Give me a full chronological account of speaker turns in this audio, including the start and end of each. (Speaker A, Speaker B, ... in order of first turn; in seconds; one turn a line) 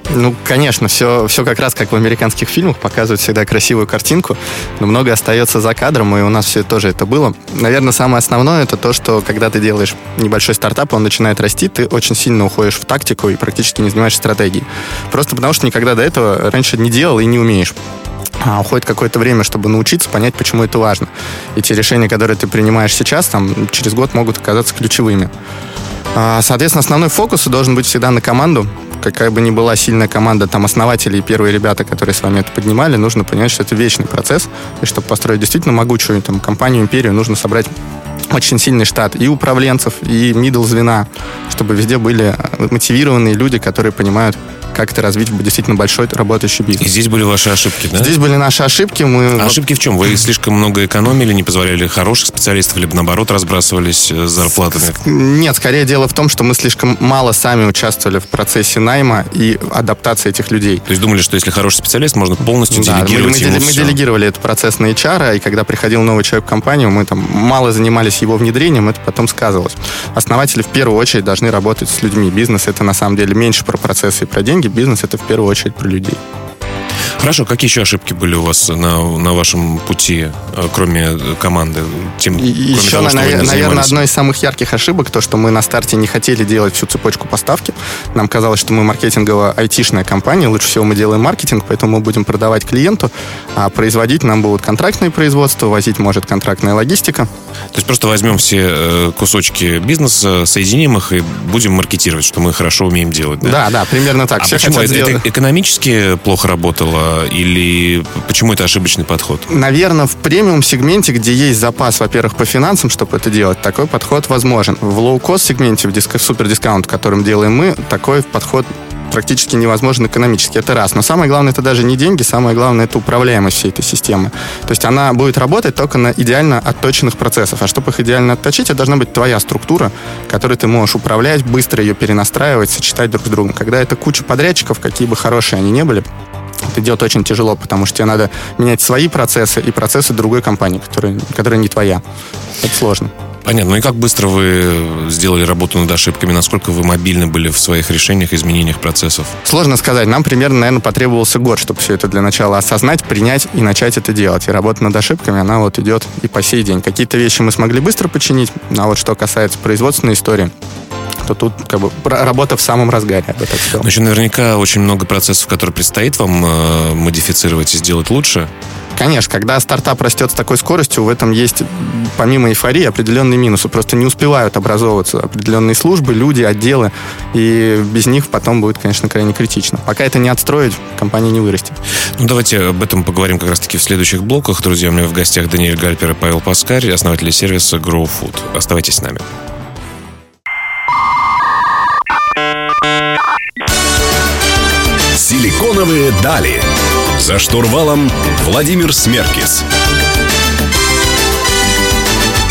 Speaker A: 0.1-17.8
Speaker A: 18.4-25.3
Speaker A: 26.1-37.7
Speaker A: 38.3-46.9
Speaker B: 46.8-48.1
Speaker A: 48.0-49.6
Speaker B: 49.4-55.0
Speaker A: 55.0-60.9
Speaker B: 60.9-64.0
Speaker A: 62.7-76.2
Speaker B: 77.2-84.0
Speaker A: 82.4-97.3
Speaker B: 97.7-103.6
Speaker A: 103.4-105.2
Speaker B: 104.4-109.5
Speaker A: 109.5-136.1
Speaker A: 136.7-142.0
Speaker A: 142.6-143.1
Speaker B: 143.4-149.3
Speaker A: 149.4-160.5
Speaker A: 161.2-163.9
Speaker B: 163.8-168.5
Speaker A: 169.0-181.8
Speaker B: 182.2-189.2
Speaker C: 195.1-199.6